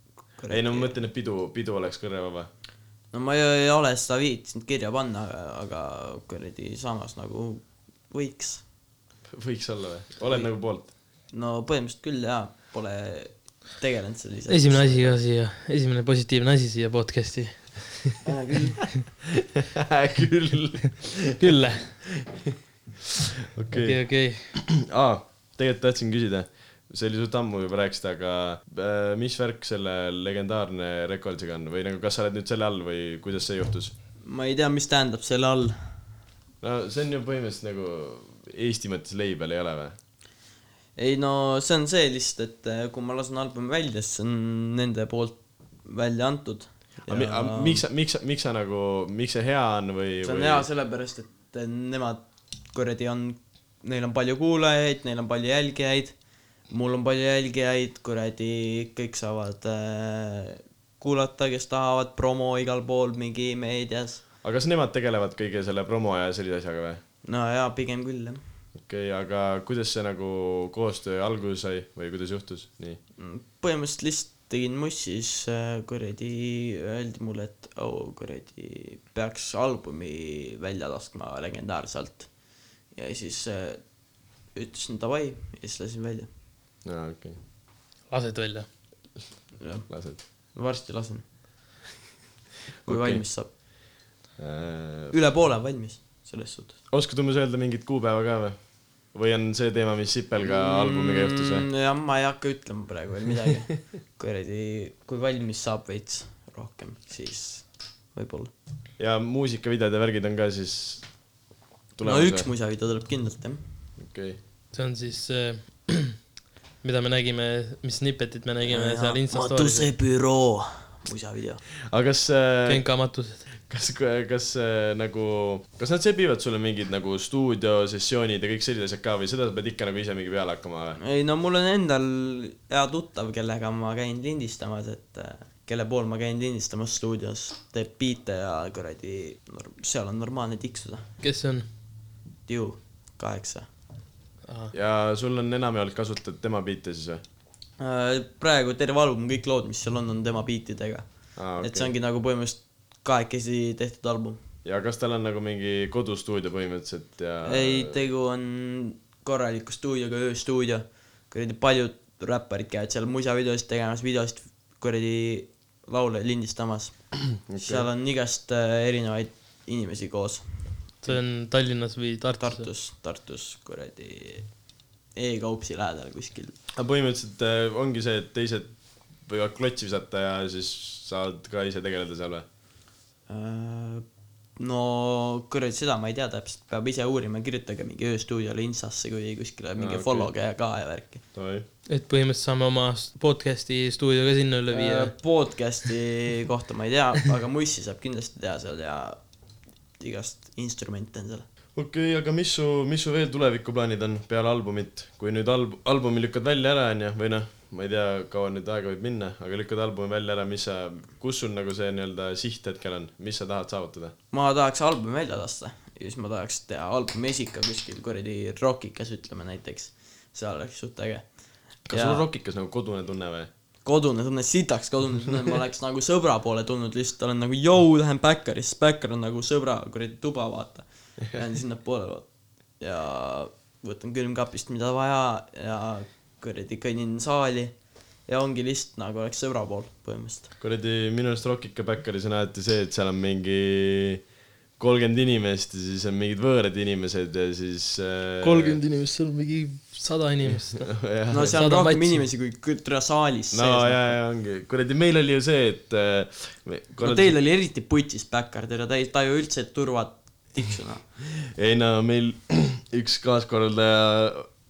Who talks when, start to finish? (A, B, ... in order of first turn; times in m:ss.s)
0:00.4-0:01.0 A
0:00.5-0:02.5 B
0:03.1-0:08.6 A
0:09.3-0:10.9 B
0:11.3-0:15.2 A
0:14.5-0:18.1 C
0:18.2-0:18.8 A
0:19.5-0:21.5 B
0:21.4-0:22.1 C
0:23.5-0:24.0 B
0:23.7-0:24.5 C
0:24.5-0:33.9 B
0:34.2-0:35.8 A
0:36.6-0:40.0 B
0:41.0-0:47.8 A
0:47.1-0:50.7 B
0:50.2-0:56.1 A
0:56.7-1:04.2 A
1:04.4-1:07.0 B
1:07.2-1:08.4 A
1:08.8-1:13.0 B
1:13.2-1:22.3 A
1:22.9-1:23.8 A
1:24.5-1:26.3 A
1:26.8-1:27.4 B
1:28.1-1:28.7 C
1:29.6-1:31.2 A
1:29.9-1:30.2 B
1:32.8-1:33.2 B
1:32.8-1:33.5 A
1:34.4-1:35.1 B
1:35.1-1:36.8 A
1:36.9-1:38.6 B
1:39.1-1:41.7 B
1:40.4-1:48.5 A
1:49.0-1:51.1 B
1:52.0-1:52.5 B
1:52.0-1:53.6 A
1:54.0-1:54.4 B
1:54.7-1:56.2 C
1:56.8-1:59.9 C
1:58.6-2:01.6 A
2:01.9-2:02.9 B
2:02.7-2:03.4 C
2:03.7-2:11.0 B
2:11.0-2:21.0 A
2:21.2-2:21.6 C
2:22.5-2:23.7 A
2:24.5-2:24.7 C
2:24.7-2:27.2 B
2:27.8-2:31.0 A
2:31.4-2:31.9 B
2:31.6-2:34.4 A
2:34.6-2:38.0 B
2:37.4-2:50.4 A
2:47.4-2:47.8 B
2:51.0-2:52.7 C
2:52.4-2:54.5 A
2:55.1-2:56.5 A
2:56.7-2:58.7 B
2:59.2-3:02.4 B
3:03.3-3:04.0 A
3:04.6-3:11.2 A
3:09.8-3:10.3 B
3:11.3-3:11.6 B
3:11.9-3:15.1 C
3:14.7-3:19.2 A
3:20.0-3:21.4 A
3:21.7-3:34.1 B
3:34.3-3:41.3 A
3:41.8-3:42.2 A
3:41.9-3:43.5 B
3:43.8-3:52.3 A
3:52.8-4:00.5 A
4:00.6-4:04.2 B
4:04.8-4:08.8 B
4:08.4-4:12.2 C
4:10.5-4:11.6 B
4:11.3-4:14.1 A
4:13.5-4:17.3 B
4:17.0-4:21.0 A
4:21.4-4:24.5 B